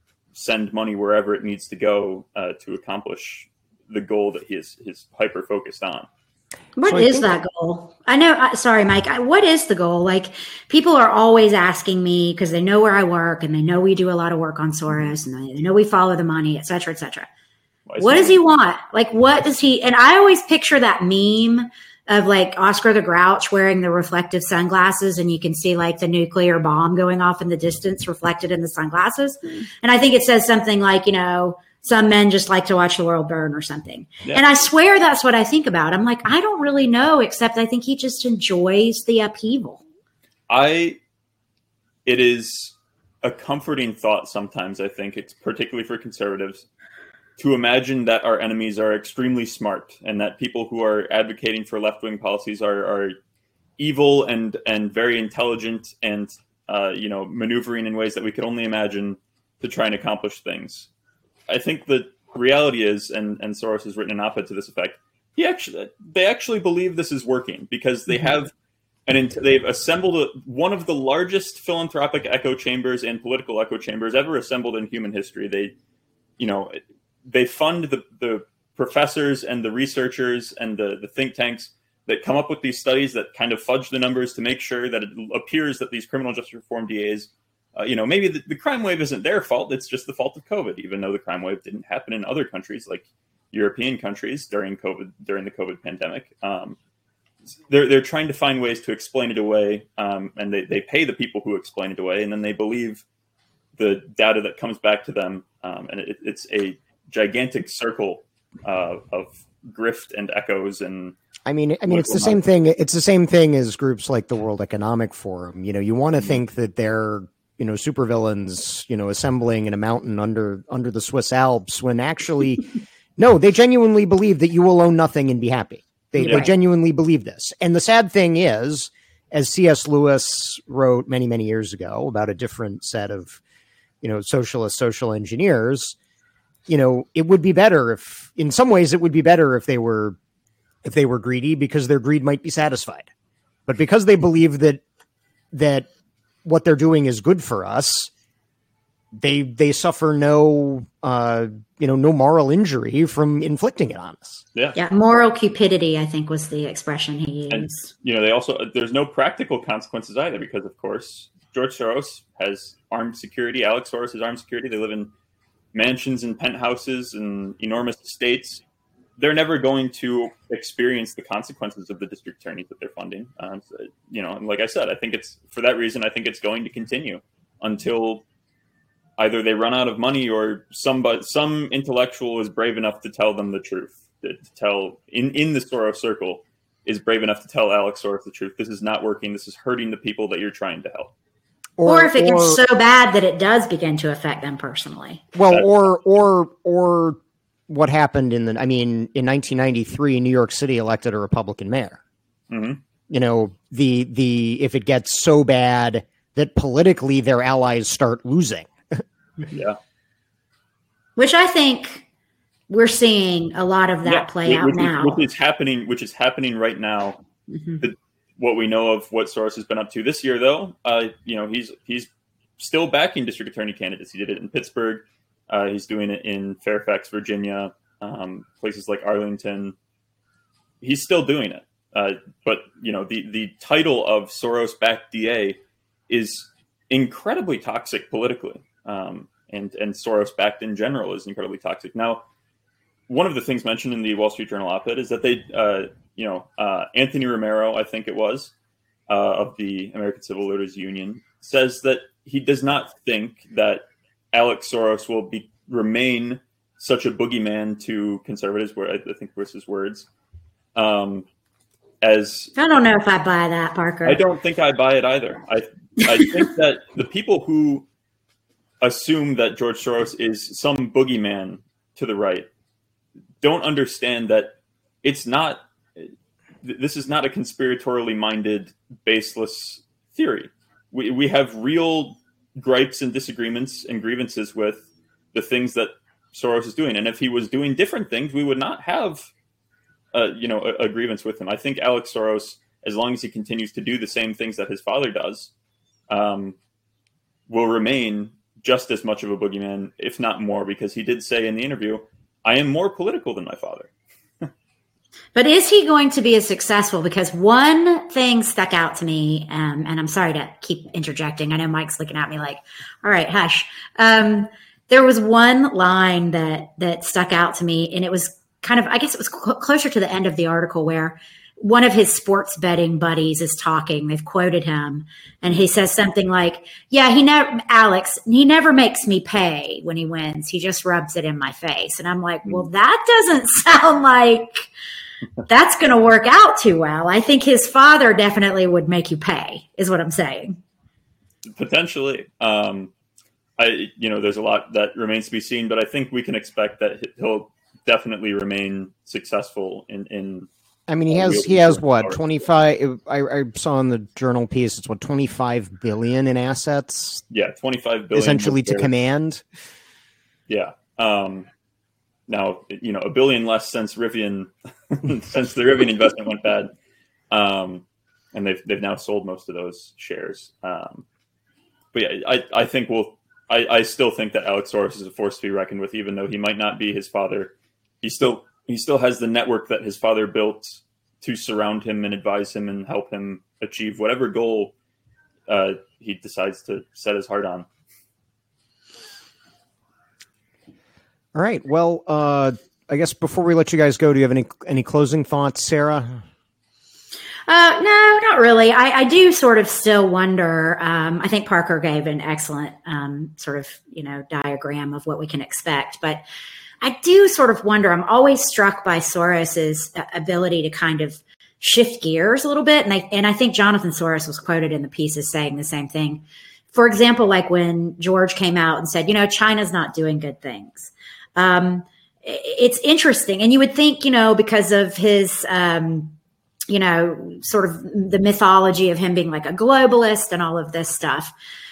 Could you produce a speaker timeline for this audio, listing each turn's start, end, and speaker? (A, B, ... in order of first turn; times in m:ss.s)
0:00.3-0:06.1 A
0:06.8-0:17.3 B
0:06.8-0:07.2 C
0:17.8-0:18.4 A
0:18.0-0:39.8 B
0:40.5-0:41.0 A
0:42.0-0:46.6 A
0:47.4-0:53.1 A
0:53.8-1:00.9 A
1:01.5-1:08.5 A
1:09.1-1:15.7 A
1:16.4-1:36.8 A
1:37.7-1:43.0 A
1:43.8-1:51.1 A
1:51.4-2:13.4 C
1:51.9-1:52.4 A
2:06.2-2:06.5 B
2:06.2-2:06.5 A
2:14.0-2:16.0 C
2:16.7-2:20.2 C
2:20.8-2:23.1 C
2:23.7-2:24.8 C
2:25.5-2:25.9 C
2:26.4-2:28.1 C
2:29.2-2:34.4 C
2:34.8-2:37.9 B
2:37.5-2:45.1 A
2:45.7-2:48.6 A
2:49.2-2:58.2 A
2:59.2-3:11.1 A
3:11.8-3:12.6 C
3:11.8-3:15.2 B
3:15.3-3:22.0 C
3:22.5-3:22.8 A
3:23.1-3:29.0 C
3:29.5-3:29.8 A
3:31.2-3:32.0 B
3:32.7-3:35.2 B
3:34.0-3:37.2 A
3:37.6-3:37.8 B
3:37.8-3:49.8 A
3:50.8-4:02.2 A
4:03.1-4:08.5 A
4:09.1-4:20.1 A
4:20.7-4:21.2 A
4:22.0-4:22.5 A
4:22.6-4:24.2 B
4:24.0-4:27.8 A
4:28.8-4:32.5 A
4:33.4-4:36.1 A
4:36.6-4:49.3 A
4:50.1-4:55.5 A
4:56.1-4:56.6 A
4:57.5-5:03.9 A
5:05.3-5:34.7 B
5:35.5-5:40.6 B
5:41.4-5:42.9 A
5:43.6-5:50.5 A
5:50.9-5:57.2 C
5:51.1-5:52.2 A
5:57.3-5:58.9 A
5:58.1-5:59.4 C
6:00.5-6:01.5 A
6:02.3-6:06.7 A
6:07.3-6:11.0 A
6:11.9-6:24.7 A
6:25.5-6:27.7 A
6:31.3-6:36.2 C
6:37.5-6:46.2 B
6:46.8-7:06.1 B
7:06.7-7:11.3 B